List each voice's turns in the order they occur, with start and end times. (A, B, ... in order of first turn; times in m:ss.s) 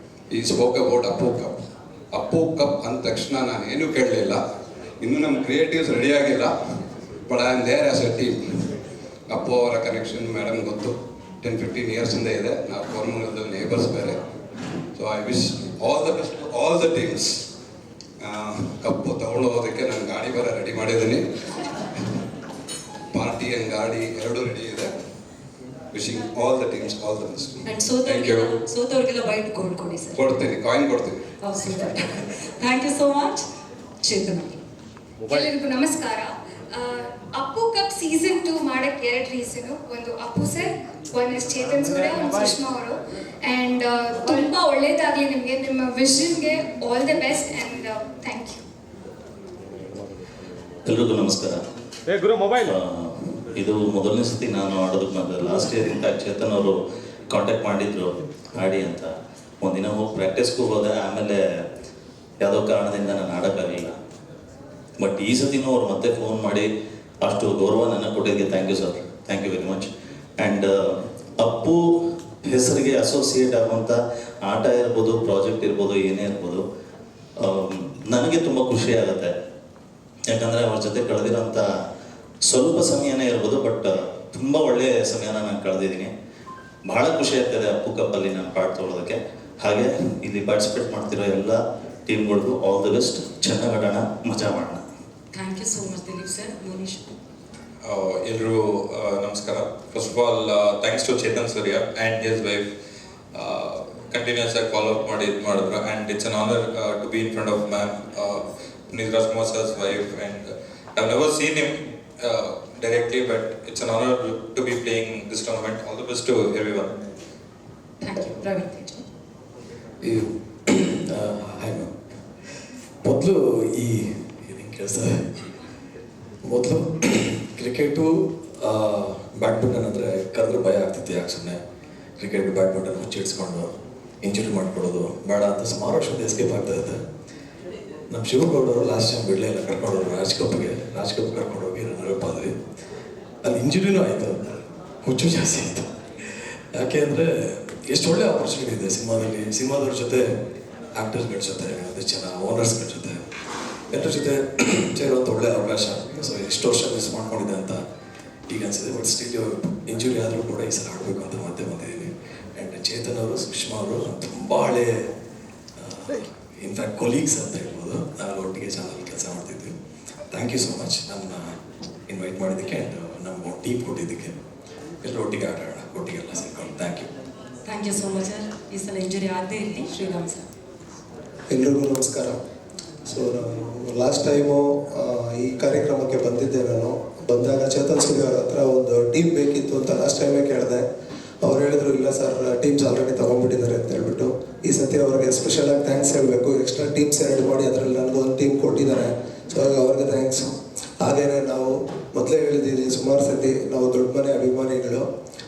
0:00.3-0:04.4 A
0:05.0-0:06.6 A
0:07.3-0:14.2 A
0:14.9-0:17.5 A
0:18.2-0:21.8 A
0:23.1-0:25.0 A
0:25.9-0:28.6 A
0:27.7-0:30.4 B
0:30.2-0:31.3 A
0:31.4-0:33.4 B
0:34.0-0:34.6 B
0:35.3-0:48.6 C
0:50.9-0:51.6 D
0:52.5-0:56.8 D
0:57.3-0:59.1 D
0:59.6-1:01.4 D
1:02.5-1:03.9 D
1:05.0-1:06.7 D
1:07.3-1:16.6 D
1:17.4-1:19.3 D
1:20.3-1:21.6 D
1:22.5-1:26.1 D
1:26.9-1:34.8 D
1:35.3-1:37.1 B
1:37.8-1:42.7 E
1:43.3-1:56.9 E
1:58.0-1:59.0 B
2:00.0-2:01.9 F
2:03.0-2:05.5 F
2:06.4-2:11.6 F
2:12.2-2:13.7 F
2:14.2-2:17.0 F
2:18.1-2:22.5 F
2:23.4-2:25.9 F
2:26.7-2:30.4 F
2:31.0-2:33.2 F
2:33.9-2:37.8 F
2:38.5-2:45.1 F
2:45.8-2:49.8 F
2:50.3-2:51.6 F
2:52.1-2:54.4 F
2:55.0-2:57.1 F
2:57.6-3:00.5 B
3:01.5-3:02.4 G
3:03.1-3:10.8 G
3:11.4-3:20.5 G
3:21.0-3:25.1 G